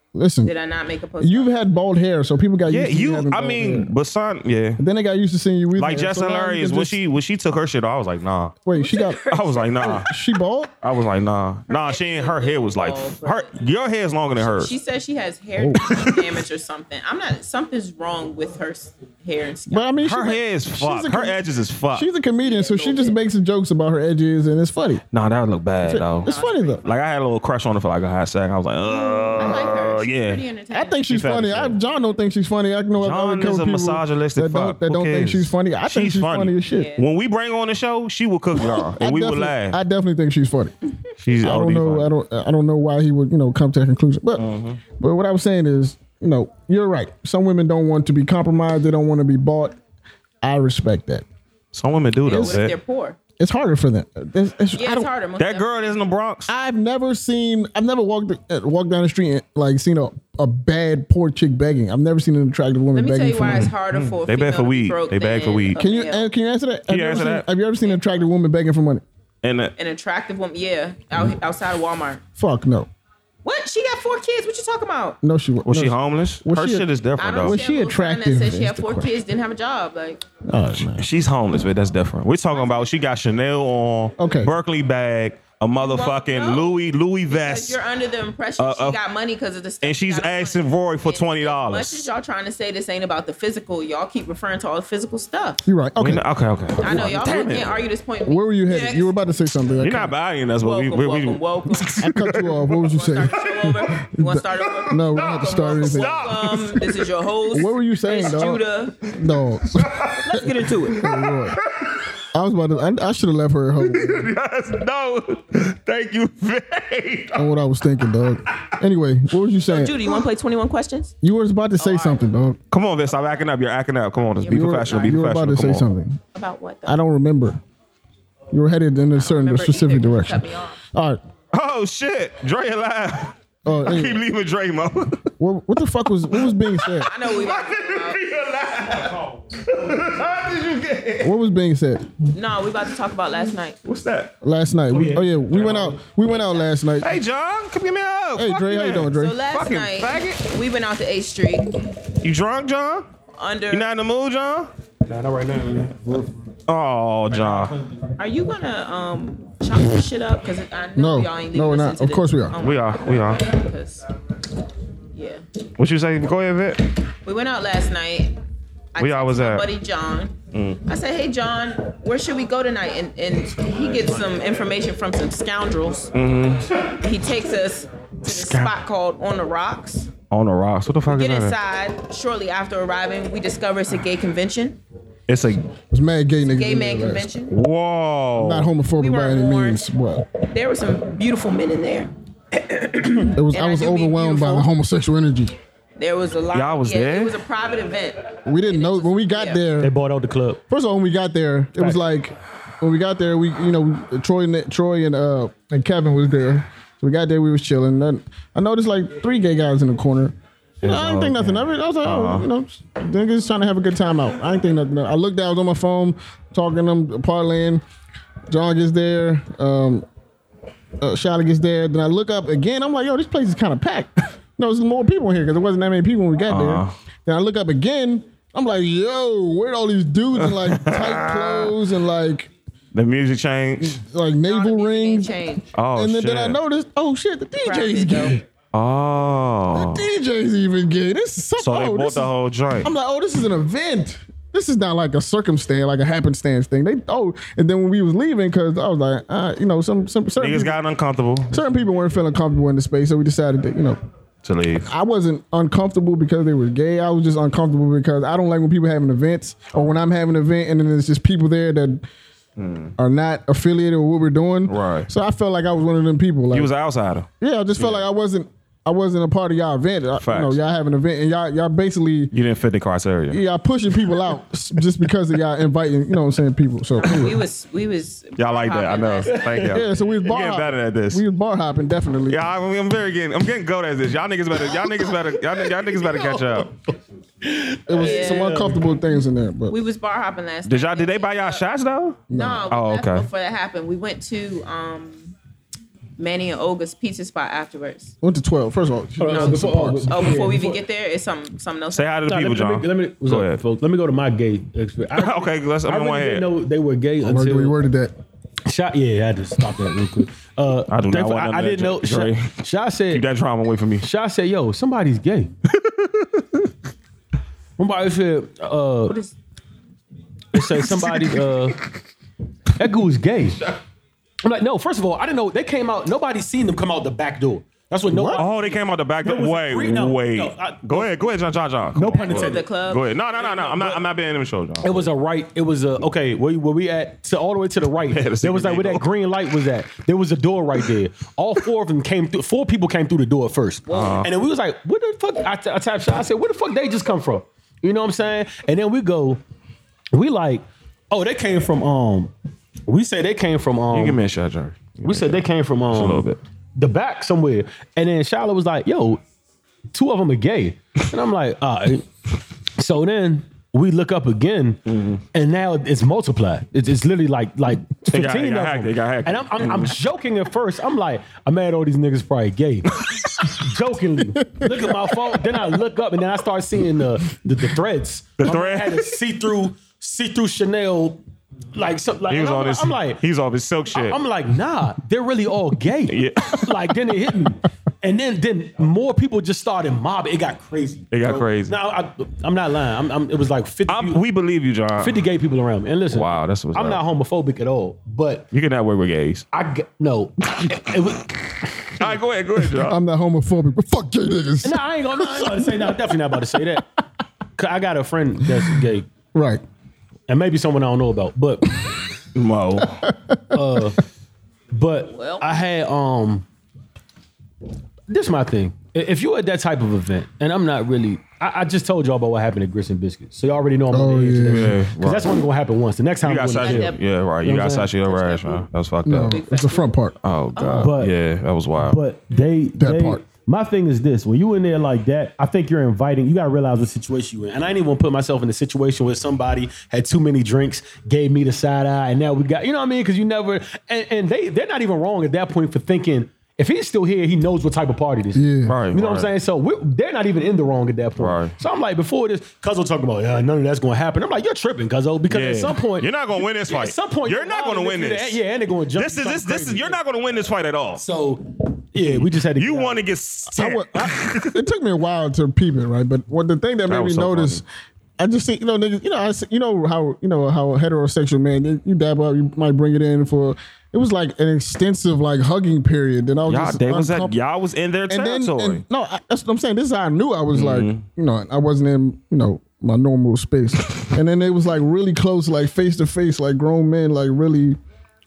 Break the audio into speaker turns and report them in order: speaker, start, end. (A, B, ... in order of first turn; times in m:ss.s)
0:00.1-0:00.5 A
0:00.4-0:01.7 B
0:01.2-0:03.9 A
0:02.7-0:04.8 C
0:04.8-0:07.0 A
0:05.8-0:08.6 C
0:08.6-0:09.2 A
0:08.8-0:10.1 B
0:09.3-0:10.1 C
0:10.0-0:10.7 A
0:10.8-0:14.7 C
0:11.7-0:13.5 B
0:14.4-0:19.9 B
0:15.6-0:16.0 A
0:19.7-0:21.4 A
0:20.0-0:22.1 C
0:21.9-0:25.0 A
0:22.4-0:23.2 B
0:25.1-0:26.3 C
0:25.8-0:26.8 A
0:26.2-0:26.8 B
0:26.8-0:30.4 C
0:29.3-0:31.0 B
0:30.7-0:36.9 A
0:31.1-0:31.8 C
0:33.0-0:39.8 C
0:36.7-0:37.0 B
0:38.6-0:40.7 A
0:41.2-0:42.1 C
0:41.4-0:44.5 A
0:44.4-0:44.8 C
0:45.0-0:49.8 A
0:50.4-0:51.2 A
0:51.7-0:52.8 C
0:52.2-0:53.2 B
0:52.3-0:52.6 A
0:53.4-0:55.1 A
0:54.8-0:55.9 B
0:55.4-0:56.5 C
0:56.5-1:03.7 A
1:02.9-1:06.3 B
1:03.9-1:05.8 C
1:05.8-1:09.0 A
1:06.9-1:07.5 C
1:09.4-1:09.7 C
1:09.8-1:12.2 B
1:12.4-1:12.9 A
1:13.4-1:15.2 B
1:15.2-1:16.9 A
1:15.7-1:17.6 C
1:17.2-1:20.2 B
1:17.4-1:19.1 A
1:20.5-1:21.1 A
1:21.0-1:27.8 C
1:22.5-1:22.9 B
1:24.2-1:24.5 A
1:25.8-1:26.7 B
1:27.3-1:35.6 B
1:28.6-1:29.0 C
1:29.8-1:32.1 C
1:35.7-1:36.2 A
1:36.0-1:37.8 C
1:36.8-1:39.1 B
1:38.2-1:40.1 A
1:39.8-1:42.8 C
1:40.6-1:42.0 B
1:42.0-1:46.3 A
1:42.9-1:49.0 B
1:43.4-1:43.9 C
1:44.6-1:47.0 C
1:47.5-1:51.6 A
1:49.6-1:50.2 C
1:50.2-1:51.0 B
1:50.9-1:52.1 C
1:52.3-1:54.3 A
1:53.8-1:57.5 C
1:57.3-2:00.1 A
1:59.7-2:01.1 B
2:01.2-2:02.6 A
2:01.8-2:02.2 B
2:02.7-2:05.8 C
2:04.4-2:05.2 B
2:04.5-2:06.2 A
2:06.3-2:07.0 B
2:06.9-2:07.6 A
2:08.5-2:11.2 A
2:09.2-2:10.8 B
2:11.5-2:15.3 C
2:13.6-2:14.2 A
2:15.4-2:17.1 A
2:16.3-2:21.3 C
2:17.1-2:18.2 B
2:21.2-2:22.1 A
2:22.3-2:23.8 B
2:23.8-2:24.3 C
2:24.4-2:27.2 A
2:24.9-2:26.0 D
2:26.2-2:26.7 B
2:27.0-2:30.4 C
2:28.4-2:29.4 A
2:29.2-2:31.8 B
2:32.2-2:33.1 C
2:33.3-2:33.9 B
2:33.7-2:34.7 C
2:35.1-2:36.4 D
2:36.7-2:37.7 C
2:37.3-2:37.9 D
2:38.2-2:44.0 B
2:41.0-2:42.6 A
2:42.6-2:43.4 C
2:45.1-2:45.4 B
2:45.8-2:46.8 C
2:47.2-2:48.4 B
2:49.0-2:50.4 B
2:49.0-2:49.7 C
2:50.5-2:50.8 C
2:50.9-2:56.1 B
2:56.1-2:56.7 C
2:57.0-3:00.1 B
2:58.2-2:58.7 C
3:00.3-3:01.6 C
3:01.1-3:04.8 B
3:05.3-3:05.6 C
3:05.9-3:07.3 A
3:06.5-3:07.6 B
3:07.5-3:08.7 C
3:08.4-3:10.3 A
3:09.0-3:09.8 B
3:10.4-3:12.1 B
3:12.7-3:14.7 B
3:13.3-3:15.6 A
3:16.0-3:19.6 B
3:16.5-3:17.4 C
3:18.5-3:19.9 A
3:19.8-3:20.6 D
3:20.7-3:37.8 A
3:30.8-3:32.5 C
3:38.5-3:40.1 A
3:41.0-3:52.5 A
3:46.5-3:47.0 C
3:50.4-3:51.8 C
3:52.9-3:54.0 C
3:53.8-3:55.4 A
3:54.4-3:55.7 B
3:55.7-3:56.6 C
3:56.0-3:58.4 A
3:57.6-3:58.4 B
3:58.7-4:00.1 C
3:59.7-4:02.3 A
4:01.6-4:02.9 C
4:02.8-4:10.8 A
4:10.4-4:11.6 C
4:11.5-4:14.0 A
4:14.4-4:14.9 C
4:14.8-4:22.0 A
4:22.6-4:22.9 C
4:23.0-4:26.7 A
4:24.7-4:25.1 C
4:26.5-4:28.0 C
4:27.4-4:32.3 A
4:30.2-4:30.6 C
4:32.3-4:33.4 C
4:33.3-4:37.4 A
4:37.0-4:39.5 B
4:38.4-4:41.2 C
4:39.3-4:39.8 D
4:39.6-4:42.4 A
4:42.3-4:46.7 C
4:44.7-4:48.8 D
4:47.9-4:49.8 A
4:48.0-4:48.7 B
4:49.7-4:51.6 B
4:50.7-4:53.3 C
4:52.3-4:52.6 A
4:52.3-4:55.3 B
4:56.2-4:58.2 B
4:58.2-5:00.5 A
4:59.2-5:00.8 D
4:59.3-5:02.2 B
5:01.9-5:03.6 C
5:02.3-5:07.8 D
5:05.2-5:06.5 C
5:07.2-5:08.1 A
5:08.7-5:13.2 D
5:10.9-5:12.6 C
5:13.1-5:14.0 C
5:14.0-5:15.5 D
5:15.7-5:16.4 C
5:17.8-5:19.2 D
5:19.1-5:19.3 B
5:20.5-5:21.8 D
5:20.8-5:21.4 C
5:22.8-5:23.7 D
5:24.4-5:31.3 D
5:28.1-5:28.4 A
5:28.4-5:35.0 C
5:32.0-5:32.7 D
5:32.1-5:33.6 B
5:33.6-5:34.0 D
5:34.8-5:49.4 D
5:38.1-5:39.1 C
5:43.9-5:44.2 B
5:43.9-5:44.3 C
5:50.1-5:52.3 D
5:52.9-5:54.2 D
5:53.9-5:56.4 C
5:55.0-5:59.2 D
5:59.9-6:02.1 D
6:02.8-6:04.8 D
6:04.9-6:05.2 C
6:05.3-6:21.2 D
6:08.1-6:09.9 C
6:14.4-6:15.0 A
6:18.4-6:19.0 C
6:21.7-6:23.2 D
6:22.3-6:24.2 C
6:23.9-6:34.2 D
6:26.1-6:26.9 C
6:31.1-6:31.8 C
6:33.9-6:35.3 C
6:35.0-6:38.5 D
6:36.1-6:37.0 C
6:38.5-6:39.5 C
6:39.5-6:42.0 D
6:42.0-6:43.0 C
6:42.8-6:46.0 A
6:44.6-6:46.9 D
6:47.6-6:49.1 D
6:48.5-6:48.8 A
6:49.3-6:49.6 A
6:50.3-6:51.8 D
6:52.4-6:53.0 C
6:52.8-6:53.6 A
6:53.5-6:54.0 D
6:54.7-6:56.5 D
6:55.1-6:55.5 B
6:58.1-7:07.9 D
7:03.9-7:04.8 A
7:04.5-7:05.3 C
7:06.2-7:09.4 C
7:06.6-7:07.0 B
7:08.0-7:08.7 B
7:09.1-7:10.8 A
7:09.2-7:10.0 B
7:10.2-7:12.0 C
7:10.6-7:10.9 B
7:10.8-7:11.1 D
7:11.8-7:40.0 D
7:12.8-7:13.2 A
7:28.3-7:28.8 A
7:28.7-7:29.3 C
7:31.2-7:31.5 C
7:35.3-7:38.4 C
7:39.0-7:41.0 C
7:41.0-7:43.0 D
7:42.0-7:44.6 C
7:43.5-7:47.6 A
7:46.9-7:47.6 C
7:48.2-7:57.4 A
7:56.5-7:58.8 C
7:58.1-8:07.8 A
8:00.5-8:01.0 C